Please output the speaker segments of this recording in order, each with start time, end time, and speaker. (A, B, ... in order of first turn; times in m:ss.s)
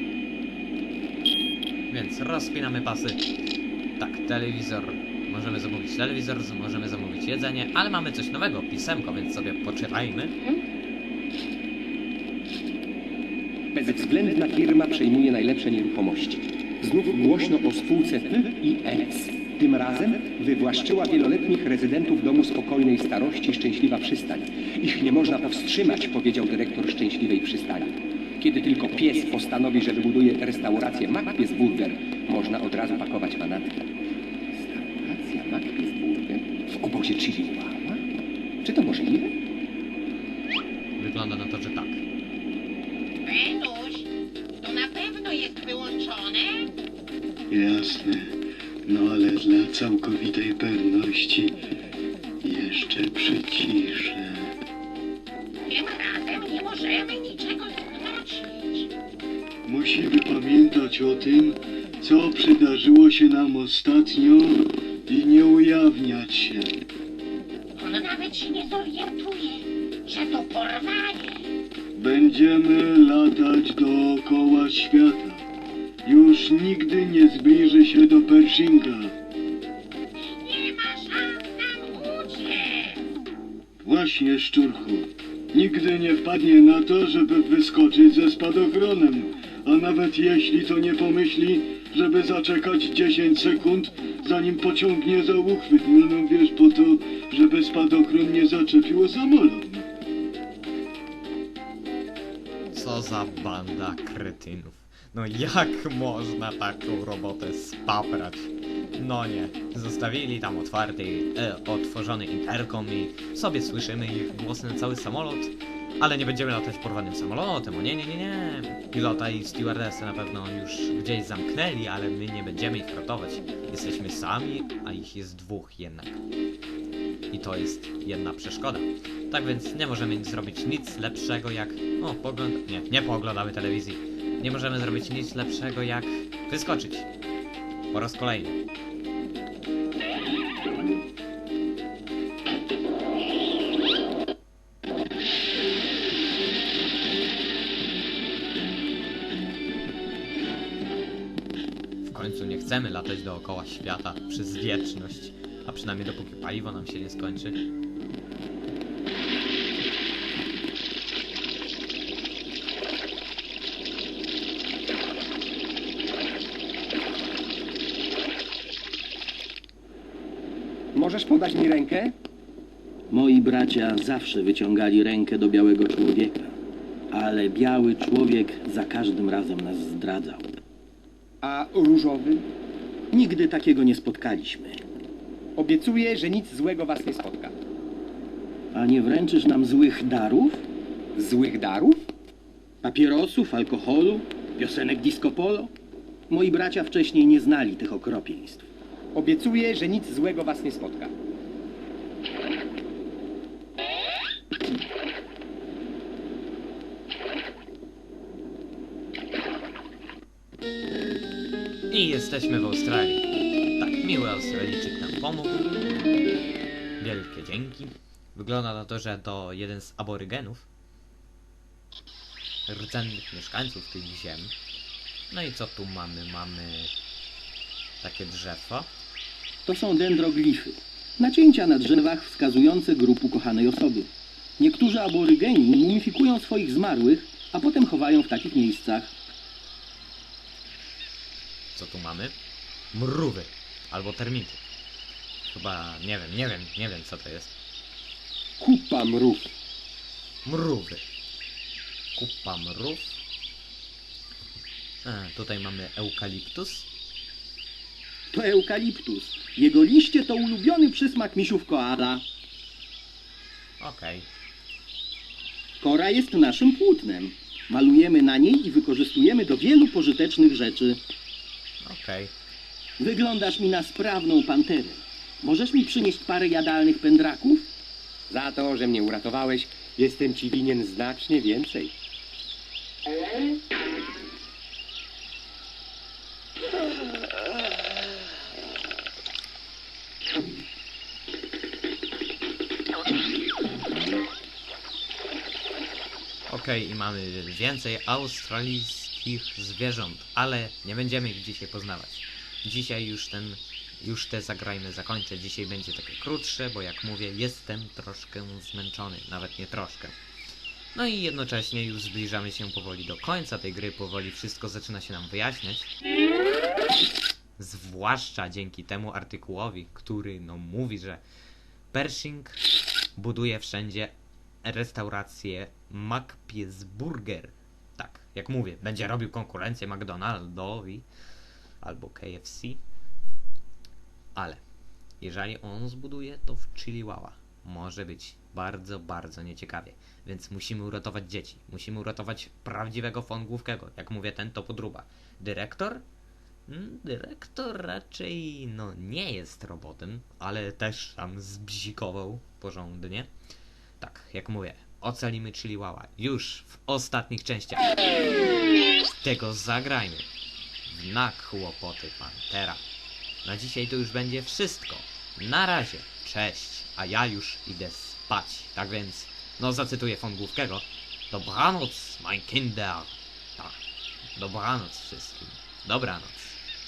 0:01.9-0:03.2 A
0:04.0-0:10.3 A
0:13.7-0:33.9 B
0:34.5-0:38.0 B
0:38.6-0:39.3 B
0:41.0-0:42.0 A
0:43.2-0:44.1 C
0:44.6-0:46.7 C
0:47.5-0:51.6 D
0:52.4-0:54.5 D
0:55.7-0:58.9 C
0:59.6-1:06.8 D
1:07.8-1:11.4 C
1:11.9-1:15.4 D
1:16.0-1:19.2 D
1:20.2-1:23.0 C
1:23.8-1:39.9 D
1:42.7-2:06.2 A
2:07.3-2:17.1 A
2:17.9-2:18.6 A
2:32.0-2:37.6 A
2:50.9-2:52.1 B
2:53.1-2:56.5 E
2:57.1-3:00.6 E
3:01.4-3:02.5 B
3:03.1-3:04.8 E
3:05.6-3:07.5 B
3:08.7-3:10.6 E
3:11.1-3:12.0 B
3:12.8-3:15.7 E
3:16.3-3:18.7 E
3:19.1-3:21.1 B
3:31.9-3:35.7 A
3:37.0-3:40.7 A
3:42.7-3:44.5 A
3:45.3-3:46.9 A
3:48.0-3:48.9 A
3:49.6-3:59.1 E
4:01.7-4:02.3 A
4:02.9-4:04.6 A
4:05.5-4:07.5 A
4:08.6-4:09.5 B
4:10.4-4:11.0 A
4:12.1-4:13.2 A
4:15.0-4:16.9 A
4:18.3-4:22.2 E
4:23.8-4:24.3 A
4:25.8-4:31.0 E
4:31.8-4:32.3 A
4:33.0-4:37.7 E
4:38.3-4:41.9 B
4:56.5-5:10.1 A
5:10.9-5:15.9 A
5:17.6-5:21.2 A
5:21.9-5:22.6 A
5:23.2-5:31.0 A
5:31.8-5:32.8 A
5:34.3-5:34.6 A
5:35.2-5:46.0 A
5:46.7-5:53.3 A
5:54.0-5:57.9 A
5:59.2-6:00.3 A
6:00.8-6:02.8 A
6:03.4-6:13.8 A
6:14.4-6:16.6 A